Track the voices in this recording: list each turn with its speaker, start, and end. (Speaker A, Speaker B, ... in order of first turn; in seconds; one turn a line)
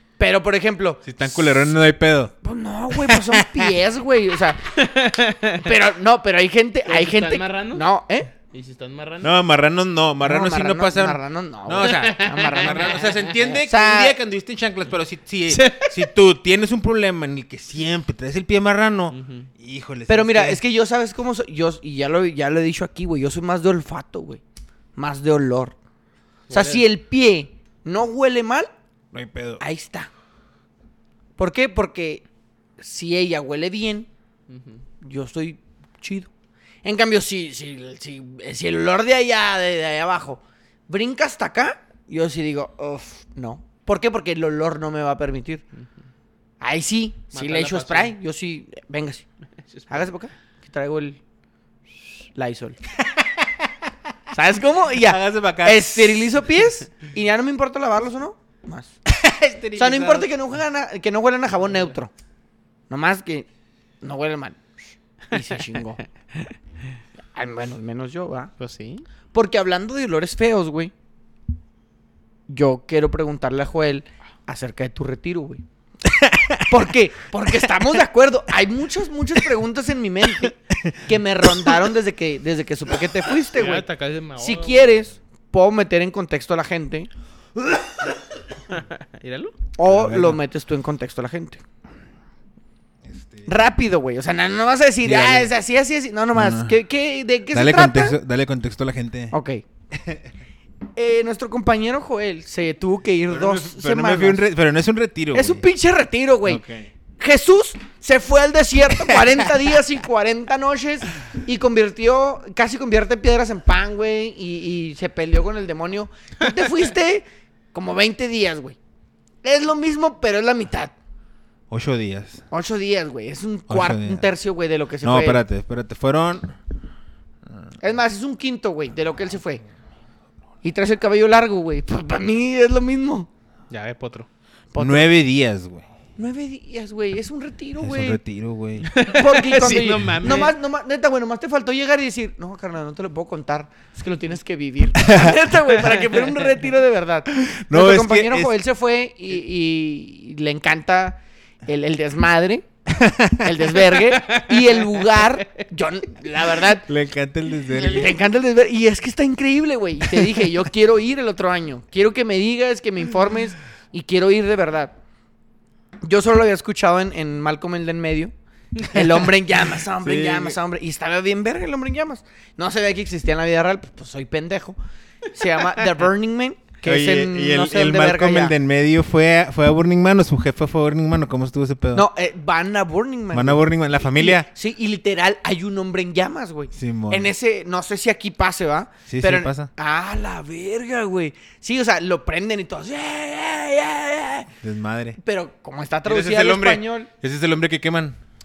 Speaker A: 0.2-1.7
Speaker B: 1.0-2.3
Speaker A: 2.4-4.8
Speaker B: 2.9-3.7
Speaker C: 4.7-5.7
Speaker A: 5.6-8.3
Speaker C: 6.8-7.8
Speaker C: 8.4-9.3
Speaker B: 9.2-20.6
Speaker A: 10.2-14.2
Speaker C: 11.8-13.6
Speaker C: 15.5-16.0
Speaker C: 19.1-19.5
Speaker A: 20.1-24.4
Speaker A: 24.9-25.8
Speaker C: 26.5-26.8
Speaker A: 26.5-28.7
Speaker B: 29.1-29.6
Speaker A: 29.6-30.1
Speaker A: 31.4-32.2
Speaker A: 32.8-34.1
Speaker C: 34.5-34.8
Speaker A: 35.0-36.3
Speaker A: 36.8-45.6
Speaker A: 46.6-49.2
Speaker C: 47.3-48.1
Speaker C: 49.7-50.1
Speaker A: 49.9-51.2
Speaker A: 52.3-52.8
Speaker B: 53.0-53.9
Speaker A: 54.3-58.9
Speaker B: 55.0-56.4
Speaker B: 59.0-60.3
Speaker A: 59.8-62.1
Speaker A: 62.9-63.5
Speaker A: 64.0-64.6
Speaker A: 65.3-66.0
Speaker A: 67.3-68.5
Speaker C: 68.6-69.0
Speaker A: 69.3-70.9
Speaker A: 72.5-75.6
Speaker B: 76.0-76.9
Speaker A: 76.7-87.1
Speaker B: 77.5-77.8
Speaker B: 80.4-81.8
Speaker C: 83.5-85.0
Speaker C: 88.7-89.5
Speaker A: 89.8-91.6
Speaker B: 89.8-90.4
Speaker B: 93.0-93.5
Speaker A: 93.5-98.2
Speaker B: 95.0-95.5
Speaker B: 96.3-96.7
Speaker B: 97.5-99.3
Speaker A: 99.3-99.6
Speaker B: 99.9-100.3
Speaker A: 101.0-104.4
Speaker B: 103.3-105.6
Speaker A: 105.3-106.6
Speaker B: 106.5-106.9
Speaker A: 107.2-118.8
Speaker B: 109.1-109.5
Speaker A: 119.4-120.9
Speaker B: 121.7-122.4
Speaker A: 122.5-125.4
Speaker B: 123.7-124.3
Speaker B: 125.0-126.5
Speaker A: 127.8-129.6
Speaker A: 130.6-133.3
Speaker C: 133.7-134.3
Speaker A: 134.7-135.1
Speaker B: 134.8-135.8
Speaker A: 136.2-138.2
Speaker B: 137.8-138.9
Speaker C: 138.9-140.6
Speaker A: 139.0-152.6
Speaker B: 145.0-145.4
Speaker B: 147.4-148.5
Speaker B: 152.9-153.7
Speaker A: 153.4-156.9
Speaker C: 154.2-155.4
Speaker B: 156.8-158.2
Speaker A: 157.7-164.9
Speaker A: 166.0-174.8
Speaker B: 169.8-170.6
Speaker A: 175.3-178.5
Speaker B: 176.8-182.1
Speaker A: 181.9-194.5
Speaker B: 183.3-184.5
Speaker B: 186.7-187.3
Speaker B: 189.1-189.7
Speaker B: 194.6-195.2
Speaker A: 195.2-197.1
Speaker B: 196.0-198.2